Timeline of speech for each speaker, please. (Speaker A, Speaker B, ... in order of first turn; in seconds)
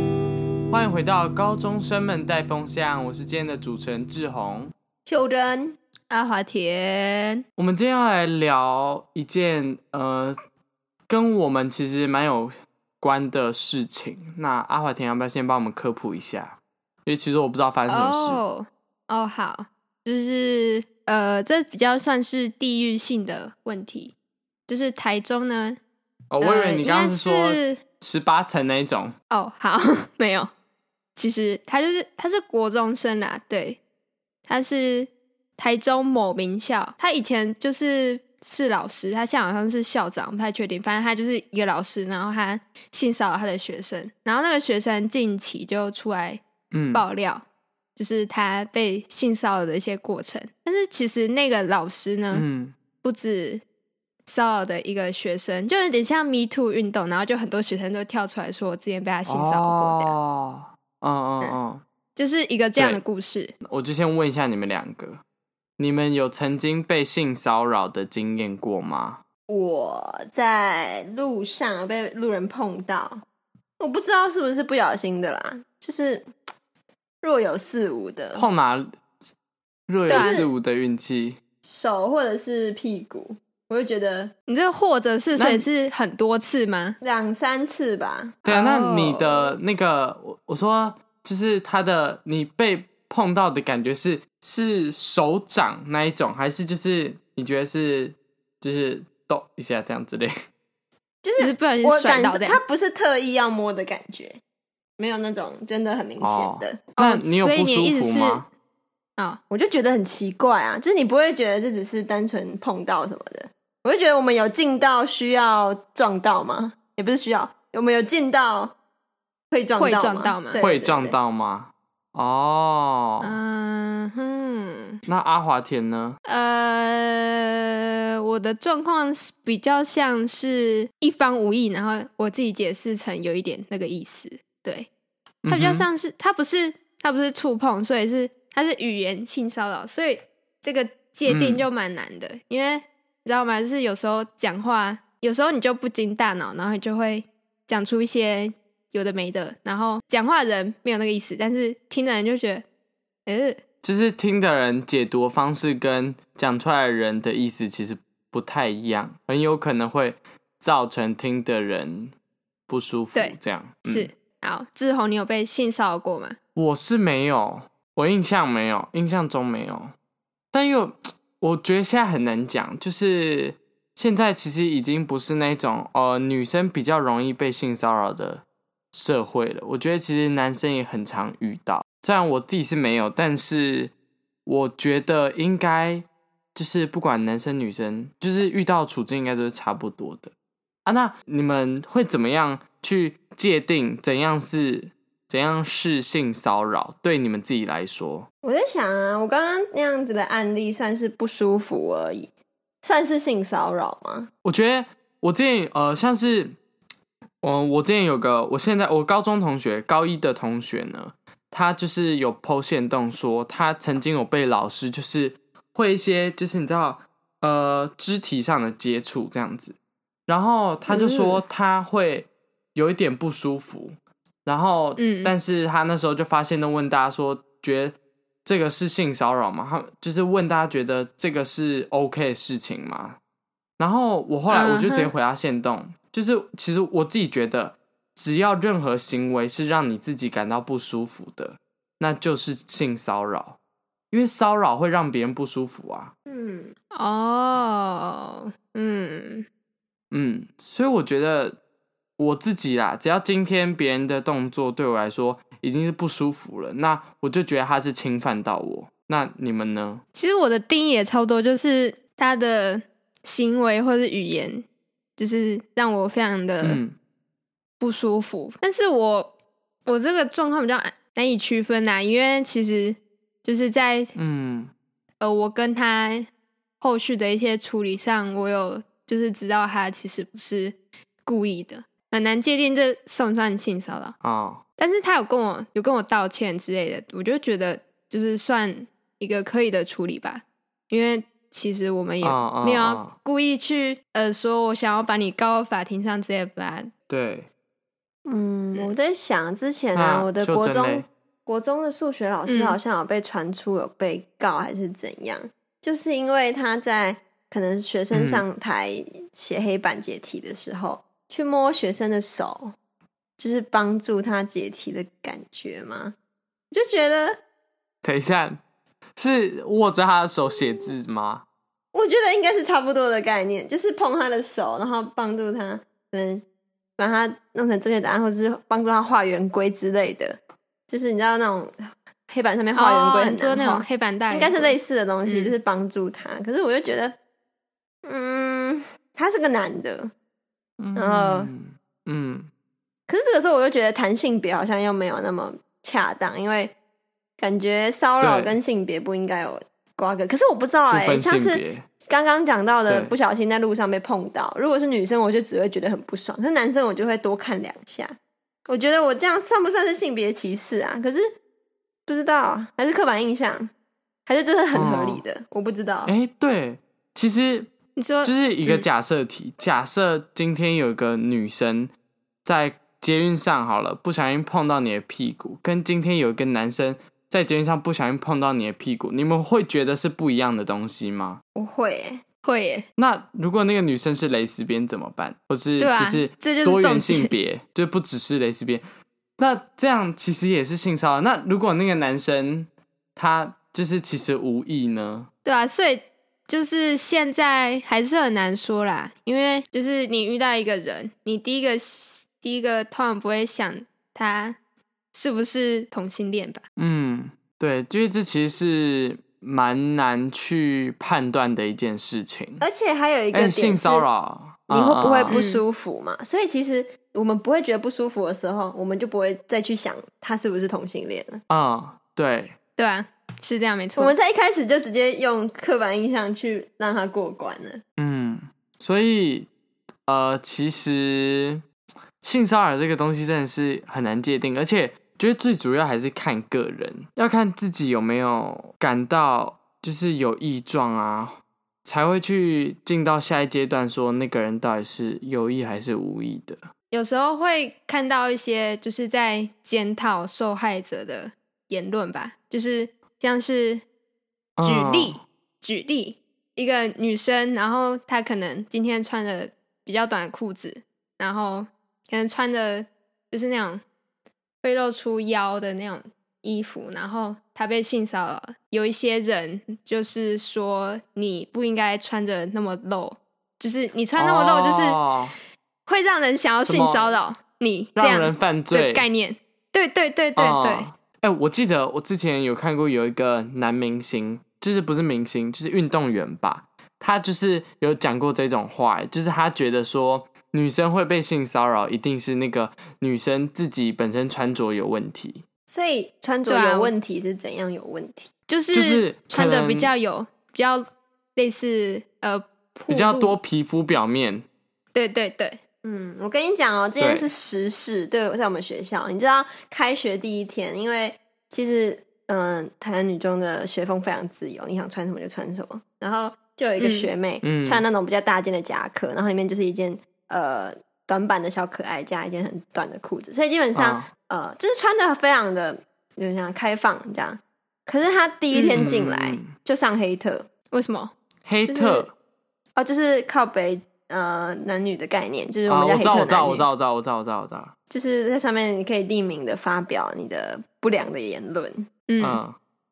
Speaker A: 0.7-4.7, 7.6-10.3, 11.1-18.4, 26.3-29.1, 46.7-47.0, 52.3-52.7, 59.2-61.8, 63.6-65.2, 65.8-69.2, 78.3-78.9, 79.9-81.4, 88.4-100.3, 106.2-108.5, 120.6-123.4, 125.1-126.2, 135.4-135.9, 141.3-141.7, 153.8-162.1, 162.7-164.1, 166.5-169.9, 170.5-183.9, 184.4-190.3, 190.8-198.3, 204.4-206.6, 207.4-219.8, 220.3-233.2, 233.8-243.6, 244.1-246.1, 250.1-251.6, 252.2-260.0, 266.6-266.9, 274.1-274.7, 284.2-284.6, 292.2-293.1, 297.1-297.5, 299.9-301.0, 308.1-308.4, 318.0-318.6, 319.2-321.4, 340.8-342.5, 348.2-348.6, 350.9-351.8, 352.9-353.1, 364.7-365.2, 366.1-367.7, 368.2-371.9, 372.4-381.4, 383.0-388.8, 389.4-395.3, 406.8-412.6, 413.3-415.4, 421.5-422.5, 428.0-429.5, 430.1-431.6, 432.2-446.6, 454.6-455.2, 474.2-475.3, 476.6-477.1, 477.9-479.1, 480.4-495.4, 498.7-499.9, 502.9-504.4, 507.0-507.3, 517.4-517.8, 523.7-524.0, 528.7-529.5, 531.4-532.1, 535.7-537.7, 542.2-542.6
Speaker B: 5.0-5.8, 69.5-73.2, 73.8-76.2, 77.2-78.5, 80.1-80.5, 81.6-84.3, 87.0-88.4, 101.2-104.4, 105.0-106.8, 109.5-118.7, 119.5-121.2, 198.4-202.3, 202.8-204.3, 246.3-246.7, 298.2-312.7, 313.4-316.1, 316.7-317.4, 321.9-326.4, 327.0-330.4, 330.9-331.8, 332.3-337.1, 338.0-340.1, 340.9-341.5, 343.1-346.7, 347.4-358.1, 358.7-361.3, 362.1-363.7, 364.2-366.1, 381.5-382.2, 412.6-414.1, 414.7-421.4, 424.0-427.8, 495.7-498.3, 505.8-530.5, 531.6-532.1, 532.8-536.7, 537.9-541.9
Speaker C: 6.1-7.4, 17.9-24.1, 24.7-25.8, 26.4-27.8, 29.3-30.5, 31.1-33.8, 34.5-46.4, 46.9-47.4, 48.0-52.4, 53.0-53.6, 54.3-60.1, 62.1-63.5, 80.1-80.4, 84.5-87.0, 88.5-89.5, 101.4-102.6, 107.0-108.5, 119.8-120.6, 123.2-125.0, 126.2-134.9, 135.5-152.6, 153.3-153.6, 163.1-166.4, 220.9-221.4, 225.0-225.3, 234.5-235.1, 246.9-249.4, 260.1-264.6, 265.2-266.8, 267.8-269.3, 269.9-274.1, 275.2-276.3, 276.8-284.1, 284.8-296.9, 302.5-302.8, 332.7-335.5, 367.9-368.3, 382.4-382.9, 385.8-387.3, 395.4-404.6, 405.1-406.6, 415.3-415.6, 422.8-424.1, 446.9-453.8, 454.6-463.8, 464.6-475.0, 475.9-480.9, 496.5-496.9, 498.5-500.8, 501.4-503.4, 504.9-505.6, 516.8-517.1, 530.7-531.1, 542.1-542.4